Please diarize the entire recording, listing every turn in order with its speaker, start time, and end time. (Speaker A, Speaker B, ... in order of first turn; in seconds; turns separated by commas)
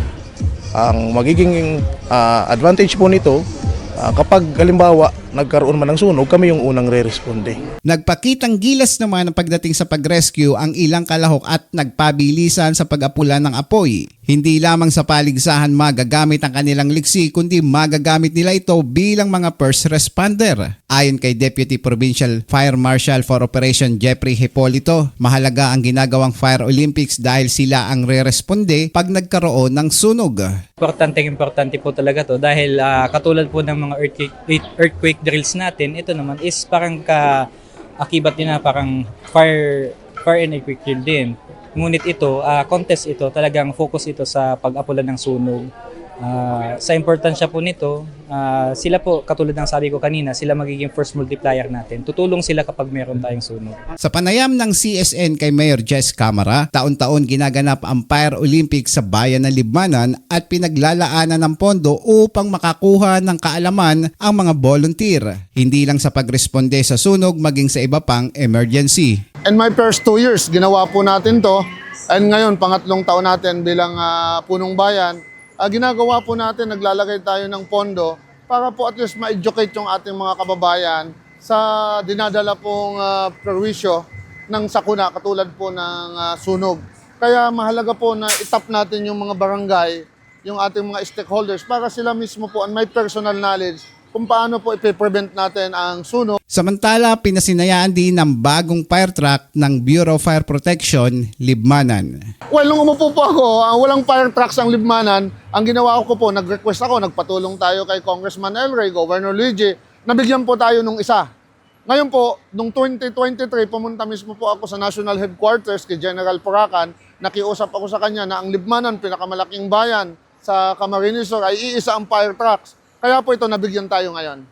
Speaker A: 0.8-3.4, Speaker A: 4.0-7.6, Speaker B: 7.9-30.5, Speaker C: 30.8-37.4, Speaker C: 38.0-45.7, Speaker C: 46.2-53.8, Speaker B: 54.0-69.2, Speaker D: 69.5-71.6, Speaker D: 72.1-96.4, Speaker B: 96.5-102.1, Speaker D: 102.5-111.2, Speaker D: 111.9-124.4